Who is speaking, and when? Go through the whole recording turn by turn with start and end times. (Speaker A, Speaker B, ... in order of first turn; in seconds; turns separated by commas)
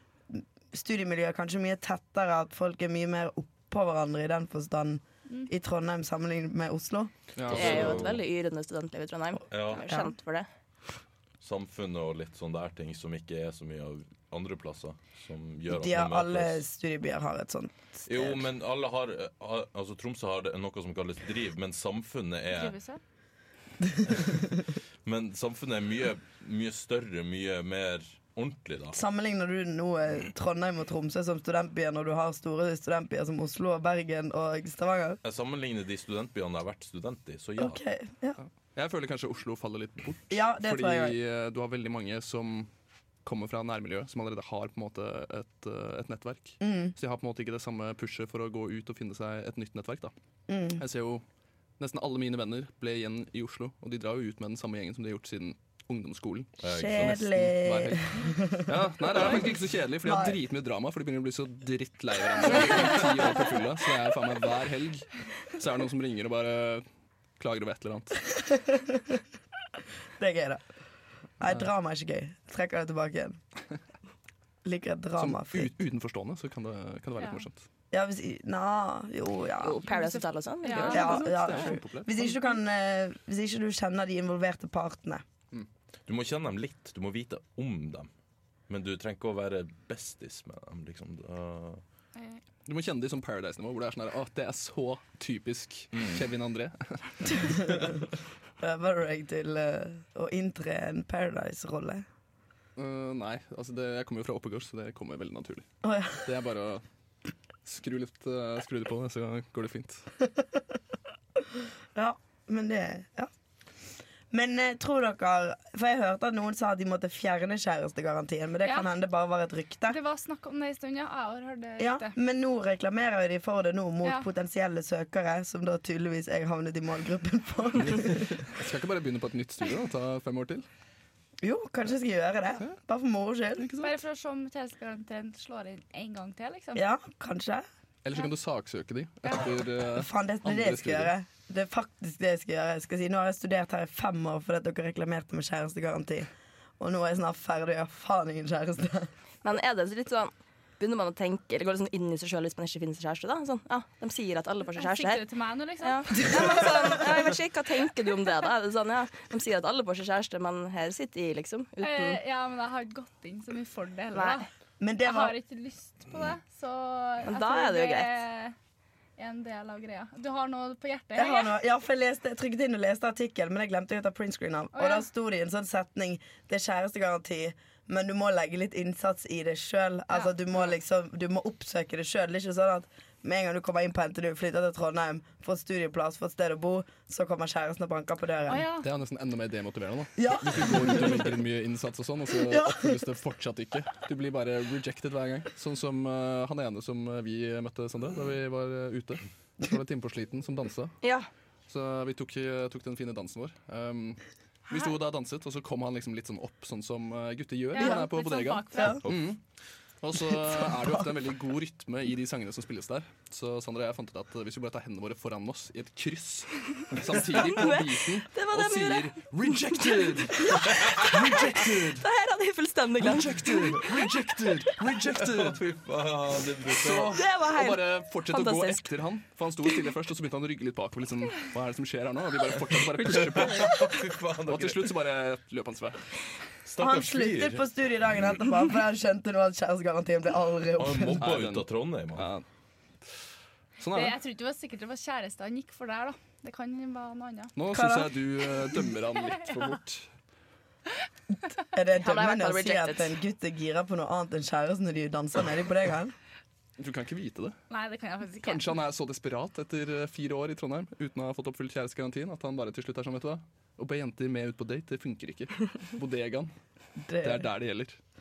Speaker A: 0.3-7.1, Speaker B: 7.3-8.0, Speaker C: 7.5-8.2, Speaker D: 7.5-10.5, Speaker C: 9.5-9.8, Speaker A: 9.8-10.1, Speaker C: 11.4-16.6, Speaker A: 15.7-18.4, Speaker C: 18.1-22.8, Speaker E: 22.5-23.0, Speaker C: 24.1-24.4, Speaker C: 25.0-29.0, Speaker A: 28.9-35.2, Speaker C: 35.2-37.8, Speaker A: 37.6-38.4, Speaker B: 38.4-42.7, Speaker A: 40.3-41.2, Speaker B: 43.2-50.1, Speaker A: 46.6-46.9, Speaker A: 50.5-50.8, Speaker B: 50.8-51.2, Speaker B: 51.8-66.8, Speaker C: 56.6-57.3, Speaker A: 56.6-59.5, Speaker A: 60.0-60.4, Speaker B: 67.4-68.1, Speaker A: 68.3-69.2, Speaker A: 70.2-70.6, Speaker A: 71.4-73.4, Speaker A: 74.6-75.7, Speaker B: 75.2-77.6, Speaker A: 77.9-80.0, Speaker D: 79.6-81.3, Speaker E: 80.6-81.3, Speaker B: 80.8-82.3, Speaker A: 80.9-85.2, Speaker C: 86.1-88.1, Speaker C: 88.7-91.8, Speaker E: 92.2-92.4, Speaker B: 92.7-97.5, Speaker C: 95.9-96.2, Speaker A: 97.3-97.9, Speaker A: 98.6-102.0, Speaker B: 102.8-105.6, Speaker A: 105.8-106.2, Speaker B: 106.2-106.8, Speaker B: 107.6-110.1, Speaker A: 111.9-113.3, Speaker A: 114.3-120.0, Speaker E: 119.9-122.2, Speaker A: 121.8-128.4, Speaker E: 124.0-124.3, Speaker B: 127.9-130.7, Speaker A: 131.4-133.7, Speaker B: 133.6-133.9, Speaker E: 133.8-136.8, Speaker A: 136.8-137.6, Speaker B: 138.0-141.1, Speaker A: 139.9-149.1, Speaker D: 149.4-155.2, Speaker E: 154.8-157.0, Speaker D: 155.8-162.2, Speaker A: 156.3-156.6, Speaker E: 161.8-164.5, Speaker D: 164.1-164.4, Speaker A: 164.8-165.3, Speaker E: 165.0-168.5, Speaker D: 167.2-168.1, Speaker E: 169.2-171.6, Speaker A: 171.2-188.7, Speaker E: 174.7-175.1, Speaker E: 180.1-180.8, Speaker E: 188.5-188.9, Speaker B: 188.8-200.9, Speaker A: 190.2-191.4, Speaker A: 192.4-192.9, Speaker D: 201.0-201.3, Speaker B: 201.7-209.4, Speaker E: 207.7-209.0, Speaker A: 207.8-208.0, Speaker A: 208.7-209.0, Speaker B: 210.0-222.1, Speaker D: 217.4-219.1, Speaker D: 222.0-223.9, Speaker B: 223.0-225.6, Speaker C: 225.2-227.2, Speaker B: 226.7-233.8, Speaker D: 227.1-228.9, Speaker C: 233.1-234.9, Speaker B: 234.4-236.0, Speaker C: 236.6-238.3, Speaker A: 236.8-241.3, Speaker C: 240.8-242.3, Speaker B: 241.2-242.4, Speaker B: 243.8-244.2, Speaker E: 243.9-247.5, Speaker B: 247.5-250.1, Speaker A: 247.7-248.2, Speaker A: 251.7-256.1, Speaker D: 252.0-253.1, Speaker B: 256.8-257.6, Speaker E: 257.7-258.7, Speaker B: 258.4-266.5, Speaker A: 267.0-267.5, Speaker B: 267.2-268.0